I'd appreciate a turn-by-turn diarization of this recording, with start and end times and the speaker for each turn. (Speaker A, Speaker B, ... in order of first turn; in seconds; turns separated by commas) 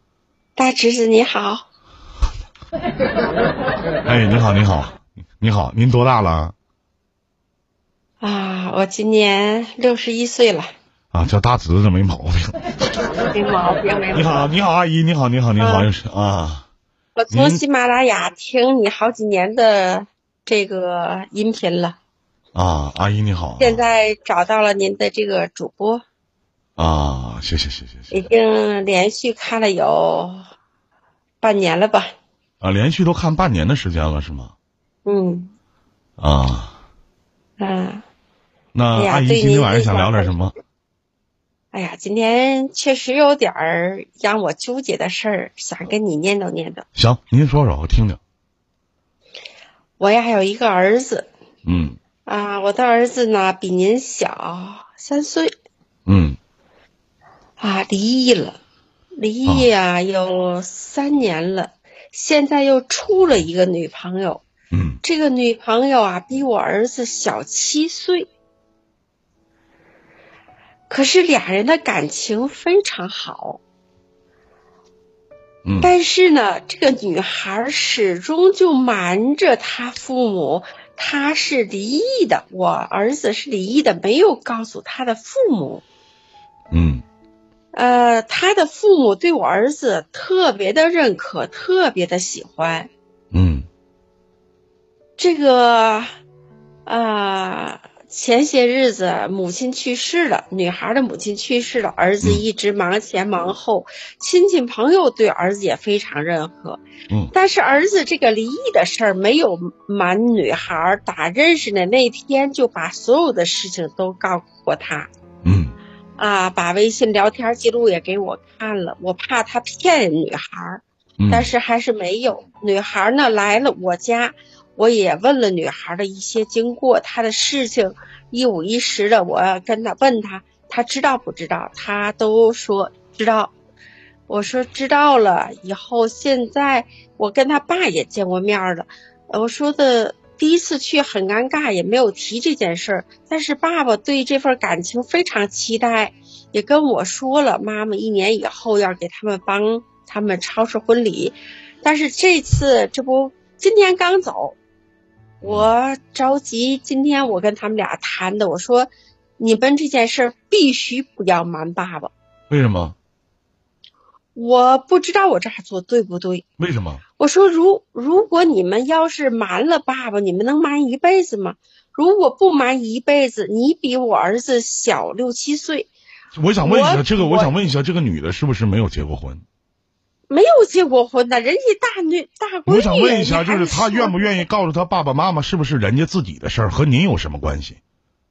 Speaker A: 0.6-1.6, Speaker B: 4.0-6.5, Speaker A: 8.2-10.7, Speaker B: 11.1-12.5, Speaker A: 13.3-14.5, Speaker B: 14.1-16.6, Speaker A: 15.6-15.9, Speaker A: 17.2-22.0, Speaker B: 17.3-17.6, Speaker B: 22.5-23.8, Speaker A: 23.6-26.0, Speaker B: 26.8-28.2, Speaker A: 28.1-30.4, Speaker A: 31.4-32.1, Speaker B: 32.6-34.5, Speaker A: 35.0-35.5, Speaker B: 36.2-36.7, Speaker A: 37.6-38.0, Speaker B: 38.7-40.5, Speaker A: 38.9-40.4, Speaker A: 41.7-46.8, Speaker B: 47.0-48.2, Speaker A: 50.0-51.3, Speaker B: 51.6-52.0, Speaker A: 52.2-55.5, Speaker B: 56.1-56.4, Speaker A: 57.6-58.6, Speaker A: 59.2-64.4, Speaker B: 64.7-65.0, Speaker A: 65.0-68.3, Speaker A: 70.9-73.6, Speaker B: 75.6-75.9, Speaker A: 75.8-85.8, Speaker B: 86.7-87.0, Speaker A: 87.7-92.9, Speaker B: 93.3-93.7, Speaker A: 95.2-96.1, Speaker A: 96.8-115.1, Speaker B: 115.4-115.7, Speaker A: 116.2-133.5, Speaker B: 121.2-121.5, Speaker A: 134.3-154.6, Speaker A: 155.4-162.1, Speaker B: 155.4-155.7, Speaker B: 162.5-162.9, Speaker A: 164.3-166.4, Speaker B: 166.6-167.0, Speaker A: 167.2-175.9, Speaker B: 176.3-179.4, Speaker A: 176.6-177.5, Speaker A: 180.3-184.4, Speaker B: 182.7-187.8